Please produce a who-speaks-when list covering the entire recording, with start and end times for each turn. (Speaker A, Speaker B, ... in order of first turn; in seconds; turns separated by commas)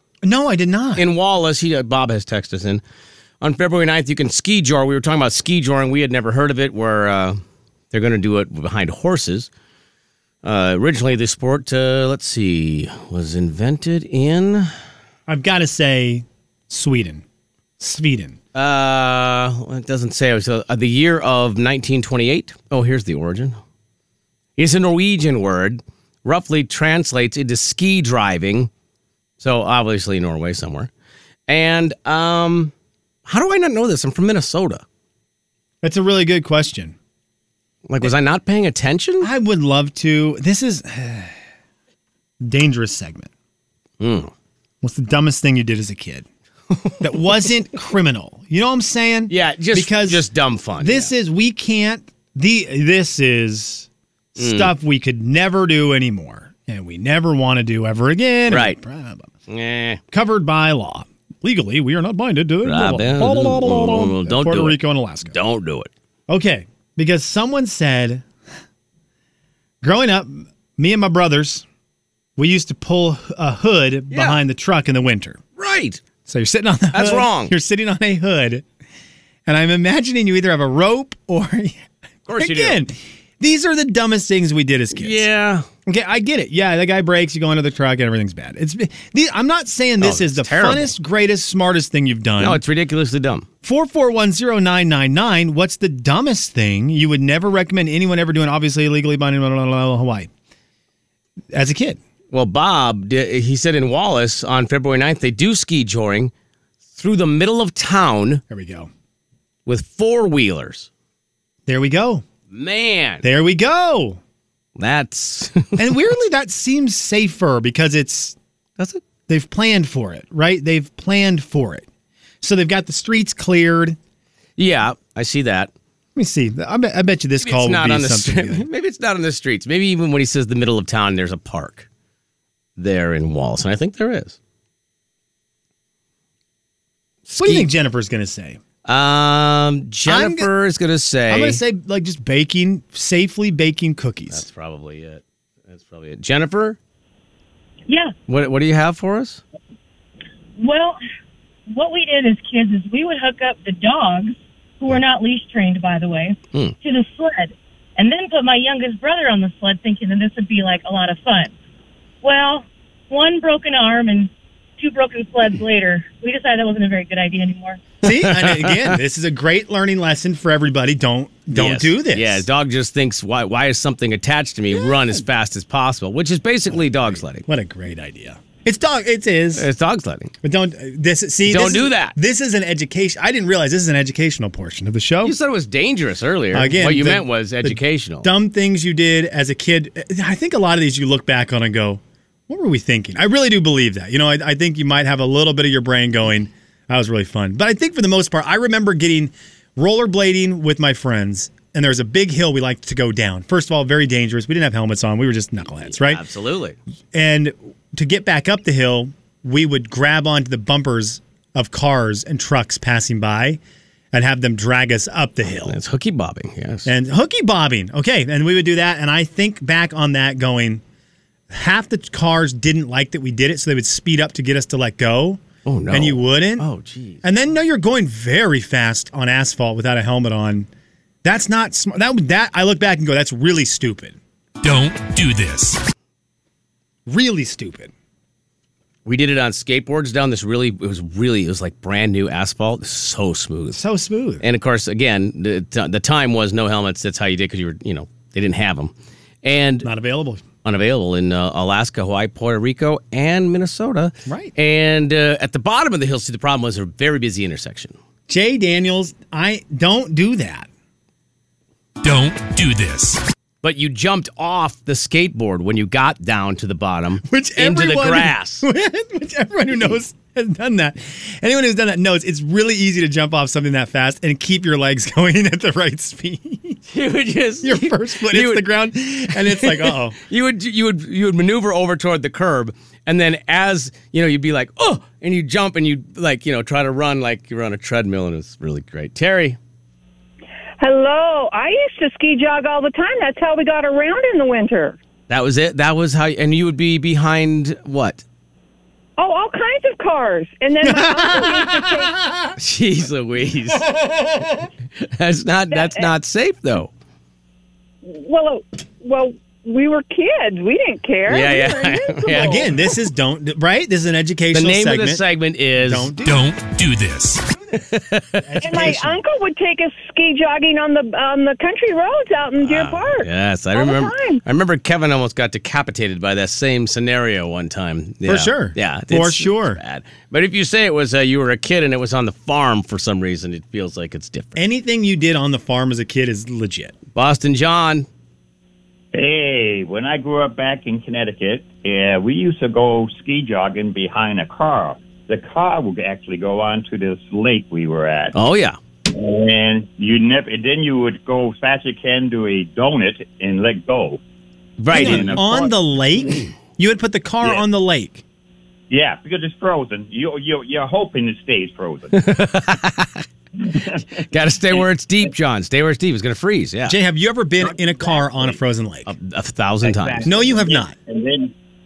Speaker A: 0.2-1.1, Speaker B: 1.0-2.8, Speaker B: 3.4-7.4, Speaker B: 7.9-9.5, Speaker B: 10.4-14.7, Speaker A: 15.3-17.2, Speaker A: 17.8-18.4, Speaker B: 18.5-23.6, Speaker B: 24.6-28.7, Speaker B: 29.4-30.9, Speaker B: 31.5-32.7, Speaker B: 33.2-34.8, Speaker A: 35.8-37.0, Speaker B: 37.9-39.3, Speaker A: 39.2-41.3, Speaker A: 42.4-43.3, Speaker B: 44.0-44.3, Speaker A: 44.8-46.2, Speaker A: 47.0-50.2, Speaker B: 49.3-51.1, Speaker A: 50.8-59.3, Speaker B: 54.4-54.7, Speaker B: 58.5-58.8, Speaker B: 59.5-60.0, Speaker A: 60.1-65.3, Speaker B: 62.6-65.9, Speaker A: 66.3-68.2, Speaker A: 69.8-71.6, Speaker A: 72.4-75.4, Speaker B: 74.1-74.4, Speaker B: 75.6-76.0, Speaker A: 76.2-78.6, Speaker B: 76.9-77.5, Speaker A: 79.5-81.8, Speaker B: 82.3-82.8, Speaker A: 82.3-85.2, Speaker B: 84.9-85.7, Speaker A: 85.8-92.6, Speaker B: 90.0-90.9, Speaker B: 92.4-93.5, Speaker A: 93.6-100.3, Speaker A: 101.5-102.0, Speaker B: 102.3-106.3, Speaker B: 107.0-108.4, Speaker A: 108.5-108.9, Speaker B: 109.7-110.9, Speaker A: 111.7-112.2, Speaker B: 112.5-113.2, Speaker A: 113.2-114.2, Speaker B: 114.8-115.8, Speaker A: 115.8-118.3, Speaker B: 118.8-119.0, Speaker A: 119.3-121.9, Speaker A: 122.4-124.0, Speaker B: 124.6-125.7, Speaker A: 126.1-128.7, Speaker B: 127.4-131.9, Speaker B: 132.8-134.4, Speaker B: 137.3-137.7, Speaker A: 137.3-138.6, Speaker B: 138.9-141.6, Speaker A: 140.1-140.5, Speaker A: 141.3-144.5, Speaker B: 144.3-146.8, Speaker C: 147.9-148.1, Speaker B: 148.3-149.4, Speaker C: 150.6-151.0, Speaker C: 151.7-161.5, Speaker C: 162.2-167.8, Speaker A: 168.0-172.5, Speaker B: 168.2-168.9, Speaker B: 171.5-177.4, Speaker A: 174.7-175.2, Speaker A: 176.7-179.7, Speaker B: 179.6-180.3, Speaker A: 180.4-185.4, Speaker B: 181.5-182.2, Speaker B: 185.2-188.3, Speaker A: 186.5-206.2, Speaker B: 205.9-206.8, Speaker A: 207.1-213.6, Speaker A: 214.1-215.8, Speaker B: 215.6-216.9, Speaker A: 216.9-220.8, Speaker A: 221.5-226.7, Speaker B: 225.7-227.2, Speaker A: 227.2-230.7, Speaker A: 231.2-234.2, Speaker D: 234.6-235.9, Speaker A: 237.1-237.9, Speaker B: 239.1-243.8, Speaker A: 243.7-244.4, Speaker B: 244.4-248.9, Speaker B: 249.4-249.9, Speaker A: 249.8-250.4, Speaker B: 250.6-257.9, Speaker A: 254.3-254.5, Speaker A: 258.3-260.7, Speaker D: 262.0-263.2, Speaker B: 263.6-268.6, Speaker A: 267.2-276.8, Speaker B: 276.9-278.7, Speaker A: 277.6-280.2, Speaker B: 279.3-289.6, Speaker E: 290.8-295.0, Speaker B: 295.3-298.2, Speaker E: 299.2-302.1, Speaker A: 300.8-302.5, Speaker B: 302.6-303.9, Speaker B: 305.0-306.9, Speaker E: 305.7-306.1, Speaker E: 308.0-312.9, Speaker B: 311.3-312.7, Speaker A: 312.4-315.2, Speaker B: 314.5-316.1, Speaker A: 315.8-316.4, Speaker D: 316.2-317.6, Speaker B: 317.7-318.9, Speaker A: 318.4-319.2, Speaker E: 318.6-324.4, Speaker B: 322.6-334.6, Speaker A: 328.2-329.8, Speaker A: 334.6-336.9, Speaker B: 337.1-338.1, Speaker F: 339.1-348.3, Speaker B: 348.3-348.8, Speaker F: 349.1-354.2, Speaker B: 354.8-355.7, Speaker F: 354.9-355.7, Speaker A: 354.9-358.2, Speaker F: 358.9-362.3, Speaker B: 362.1-363.2, Speaker F: 363.6-364.0, Speaker B: 364.1-366.9, Speaker A: 366.9-369.1, Speaker F: 367.6-368.5, Speaker B: 369.1-370.3, Speaker F: 369.8-371.5, Speaker A: 370.2-370.9